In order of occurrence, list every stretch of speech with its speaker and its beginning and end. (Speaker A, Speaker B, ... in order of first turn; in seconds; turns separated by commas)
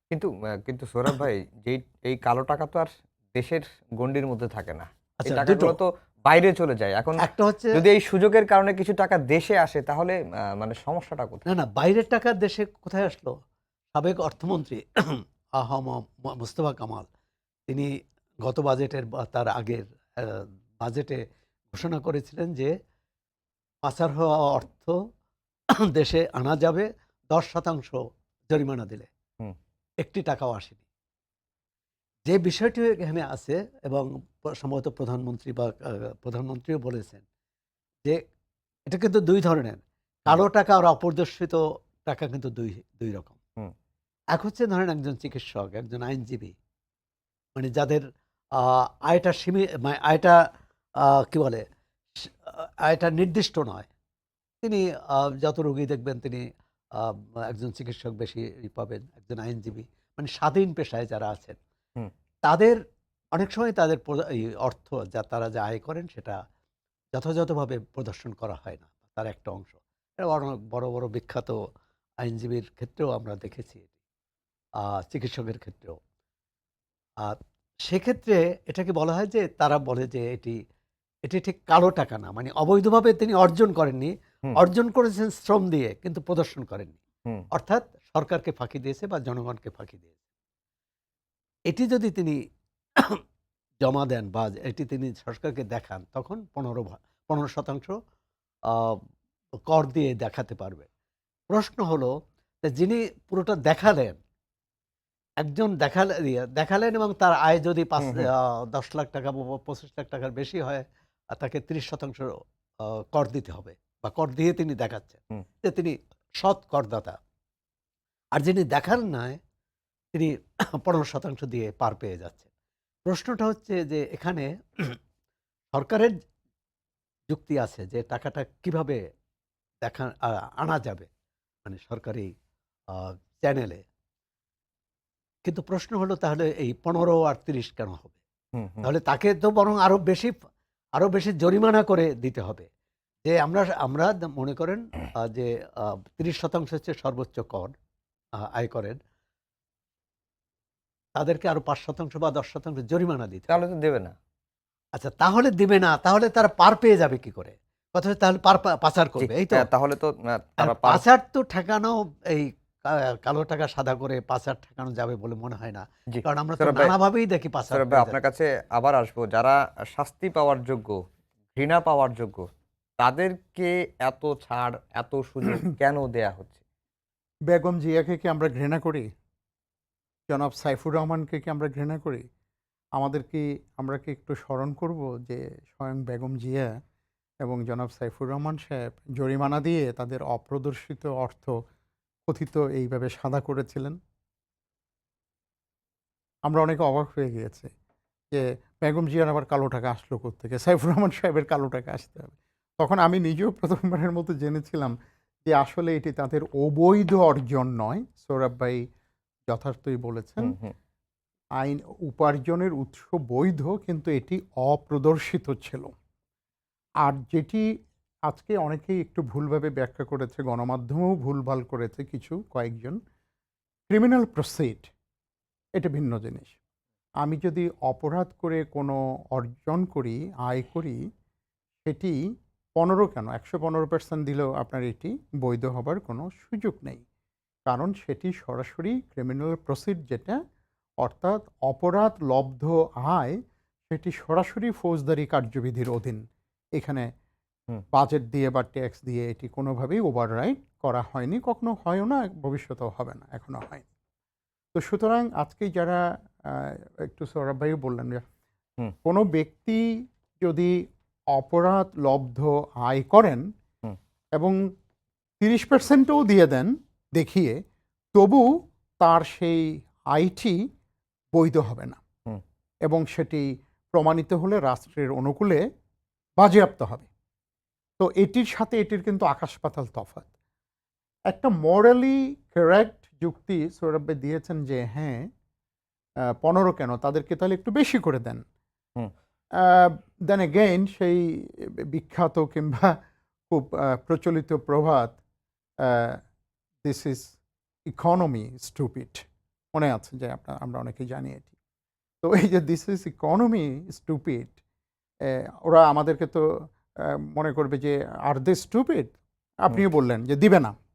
Speaker A: 0.1-11.4, Speaker B: 5.2-5.8, Speaker B: 7.2-7.8, Speaker B: 11.5-13.3, Speaker B: 13.9-17.1, Speaker B: 17.7-21.2, Speaker B: 21.7-22.7, Speaker B: 23.9-24.9, Speaker B: 25.9-28.0, Speaker B: 28.5-29.1, Speaker B: 30.0-30.8, Speaker B: 32.3-37.2, Speaker B: 38.9-43.4, Speaker B: 44.3-46.5, Speaker B: 47.6-50.4, Speaker B: 51.0-51.6, Speaker B: 52.2-53.9, Speaker B: 54.6-61.6, Speaker B: 62.5-62.8, Speaker B: 63.3-66.4, Speaker B: 67.1-71.6, Speaker B: 72.2-73.9, Speaker B: 74.8-76.0, Speaker B: 77.9-80.6, Speaker B: 81.3-87.0, Speaker B: 87.5-90.1, Speaker B: 91.7-92.4, Speaker B: 93.8-97.9, Speaker B: 98.7-99.0, Speaker B: 99.7-100.9, Speaker B: 101.5-102.1, Speaker B: 102.7-104.2, Speaker B: 105.4-112.3, Speaker A: 108.0-108.3, Speaker B: 113.1-117.2, Speaker B: 118.3-119.4, Speaker B: 120.1-122.5, Speaker B: 123.1-125.0, Speaker B: 125.7-126.2, Speaker B: 127.3-129.0, Speaker B: 129.8-131.1, Speaker B: 131.6-132.3, Speaker B: 132.9-133.8, Speaker B: 135.4-138.2, Speaker A: 138.5-138.9, Speaker B: 138.8-140.3, Speaker B: 141.0-142.7, Speaker B: 143.2-147.7, Speaker B: 148.4-149.0, Speaker B: 151.2-153.5, Speaker A: 153.5-154.1, Speaker B: 155.0-159.7, Speaker A: 159.2-161.0, Speaker B: 160.6-168.2, Speaker A: 166.1-166.9, Speaker A: 167.7-171.0, Speaker A: 171.5-172.5, Speaker A: 173.0-176.6, Speaker C: 177.5-179.1, Speaker C: 180.3-182.2, Speaker C: 183.0-186.7, Speaker C: 187.4-191.5, Speaker C: 192.3-194.0, Speaker C: 196.5-197.7, Speaker C: 198.3-204.9, Speaker C: 205.4-208.8, Speaker C: 209.5-210.6, Speaker A: 210.4-210.7, Speaker C: 211.6-215.9, Speaker C: 217.0-217.7, Speaker C: 218.3-223.0, Speaker C: 223.9-224.9, Speaker C: 225.8-226.6, Speaker C: 227.2-231.0, Speaker C: 231.8-232.2, Speaker C: 232.8-237.0, Speaker C: 237.7-240.4, Speaker C: 241.0-246.2, Speaker C: 246.8-247.1, Speaker C: 247.9-253.8, Speaker C: 254.7-258.2, Speaker C: 259.0-260.8, Speaker C: 261.3-263.4, Speaker C: 265.4-267.6, Speaker C: 268.1-268.5, Speaker C: 269.0-270.6, Speaker C: 271.3-272.0, Speaker C: 272.9-275.6, Speaker C: 276.4-277.1, Speaker C: 278.0-280.3, Speaker C: 281.3-285.3, Speaker C: 286.4-288.4, Speaker C: 289.6-292.9, Speaker C: 293.5-295.2, Speaker C: 295.8-296.2, Speaker C: 296.8-297.3, Speaker C: 297.9-301.5, Speaker C: 302.2-304.5, Speaker C: 305.2-310.8